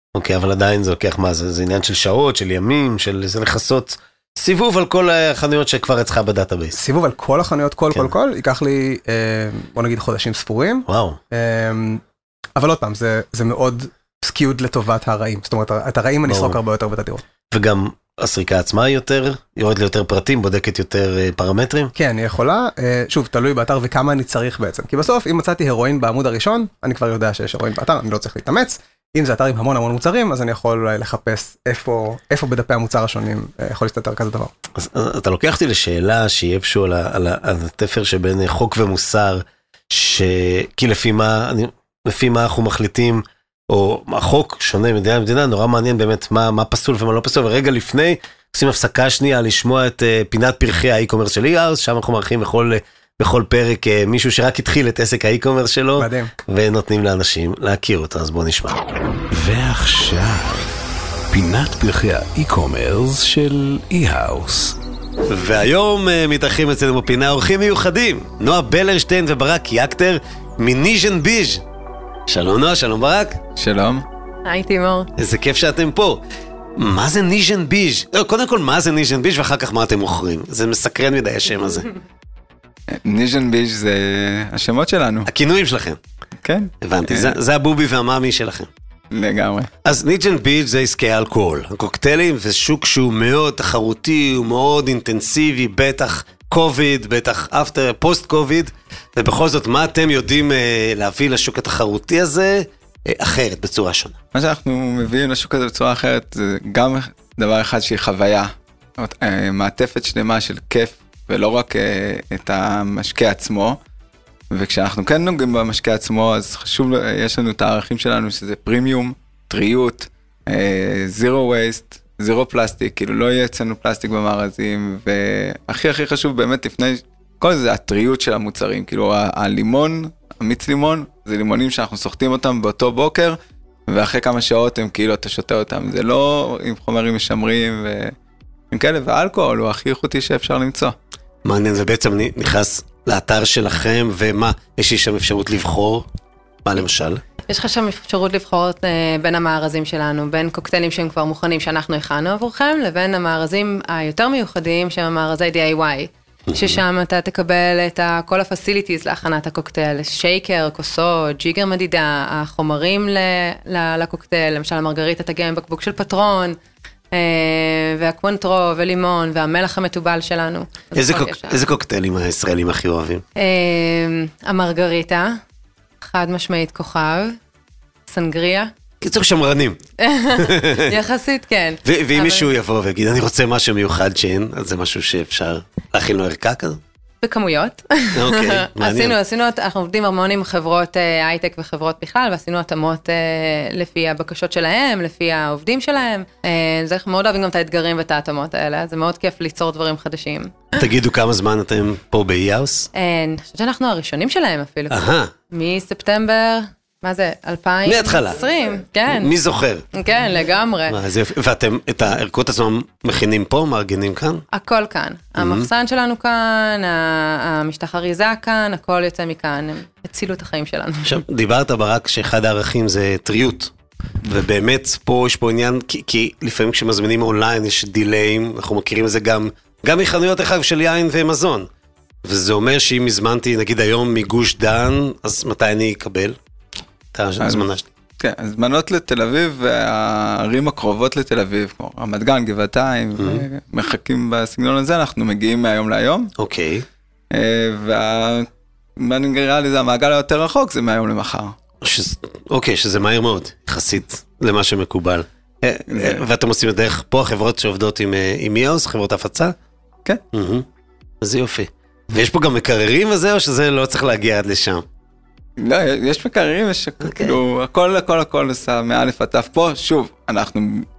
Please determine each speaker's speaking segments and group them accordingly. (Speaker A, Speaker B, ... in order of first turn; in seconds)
Speaker A: 0.1-6.8, 10.9-11.2, 16.3-16.6, 17.5-21.9, 34.7-58.8, 65.3-71.6, 72.3-73.4, 75.2-76.2, 76.8-81.9, 85.2-86.0, 86.8-88.7, 89.8-104.2, 141.4-146.1, 146.6-147.2, 156.5-156.8, 170.9-173.2, 179.0-179.8, 180.3-180.9, 181.8-186.8, 188.1-189.2, 200.8-202.9, 204.9-205.3, 207.8-208.4, 209.1-209.8, 210.9-214.4, 215.4-215.7, 221.0-231.7, 232.2-236.4, 237.1-237.9, 243.2-243.4, 246.4-246.8, 251.8-259.5, 260.3-260.6, 261.2-264.8, 267.0-267.4
Speaker B: 6.7-12.0, 12.6-17.2, 21.9-34.5, 56.0-56.3
Speaker C: 59.3-60.7, 61.3-64.8
Speaker D: 73.5-74.0, 82.9-85.3, 86.4-87.3, 89.1-89.7, 104.3-113.8, 114.5-133.4, 133.9-138.1, 138.7-140.9, 237.4-237.7, 238.2-246.3, 247.3-251.5, 255.9-256.2, 265.6-270.9
Speaker E: 74.4-75.1, 147.5-166.6, 167.1-171.6, 173.4-175.4, 176.0-177.4, 178.1-178.7, 180.0-182.5, 187.2-200.7, 202.9-209.3, 209.9-211.0, 214.5-221.2